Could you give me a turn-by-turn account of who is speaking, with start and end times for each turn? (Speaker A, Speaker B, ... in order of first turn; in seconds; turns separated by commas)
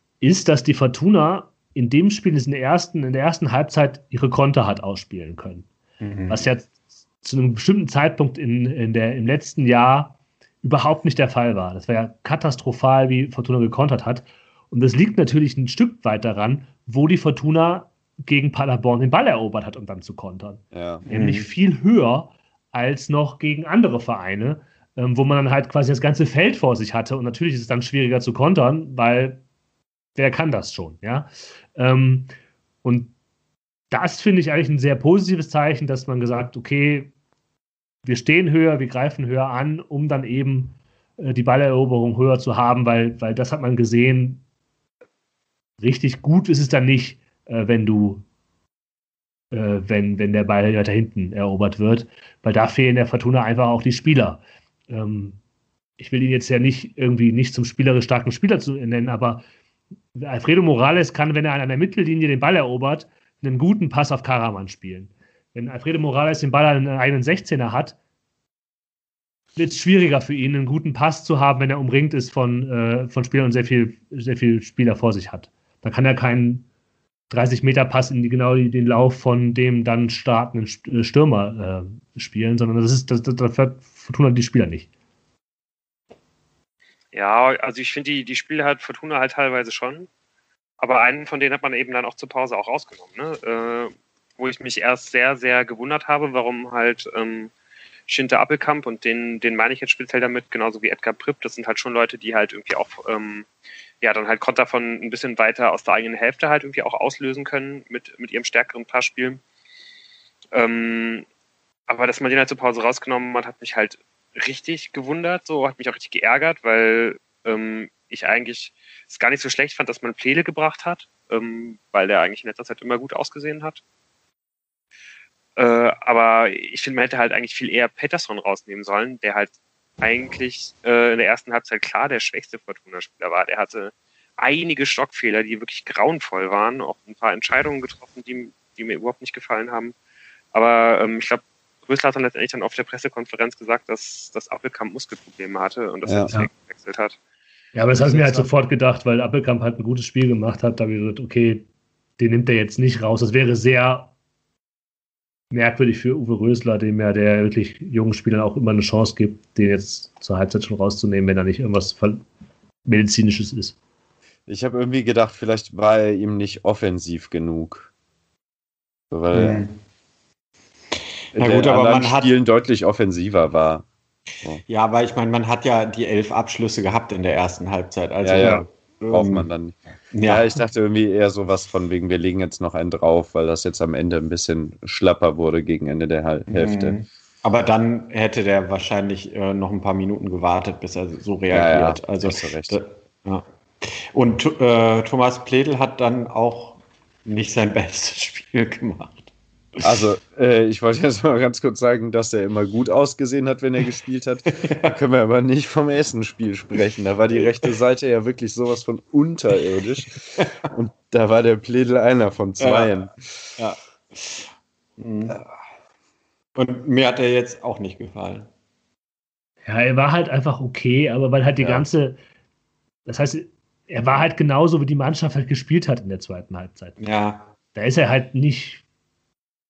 Speaker A: 0.2-5.7, Speaker B: 6.0-6.5, Speaker A: 6.3-29.4, Speaker C: 20.7-21.1, Speaker B: 21.1-21.5, Speaker A: 30.2-33.1, Speaker A: 33.9-37.1, Speaker A: 38.0-44.4, Speaker A: 45.8-48.2, Speaker A: 49.5-55.4, Speaker A: 56.0-59.4, Speaker A: 60.1-68.0, Speaker A: 69.6-76.7, Speaker A: 77.3-84.9, Speaker D: 87.1-90.1, Speaker D: 90.8-97.5, Speaker D: 98.1-103.5, Speaker D: 104.0-109.4, Speaker D: 110.5-111.3, Speaker D: 111.9-123.8, Speaker D: 125.6-140.0, Speaker D: 140.5-147.2, Speaker C: 146.1-146.3, Speaker A: 147.8-151.7, Speaker D: 148.0-148.5, Speaker A: 152.2-154.1, Speaker A: 155.5-162.2, Speaker A: 162.8-163.8, Speaker C: 164.5-167.9, Speaker C: 169.1-169.6, Speaker B: 169.3-169.8, Speaker B: 171.3-172.3, Speaker C: 171.3-173.9, Speaker B: 174.7-179.5, Speaker C: 178.2-187.0, Speaker A: 178.4-178.7, Speaker B: 180.1-180.5, Speaker B: 186.5-199.8, Speaker C: 191.5-192.8, Speaker C: 199.8-213.6, Speaker B: 204.6-204.9, Speaker B: 207.3-207.7, Speaker B: 212.6-212.9, Speaker B: 213.6-214.4, Speaker B: 215.0-215.4, Speaker B: 216.6-218.5, Speaker A: 219.7-222.2, Speaker A: 223.1-227.0, Speaker B: 227.0-227.5, Speaker A: 227.7-228.8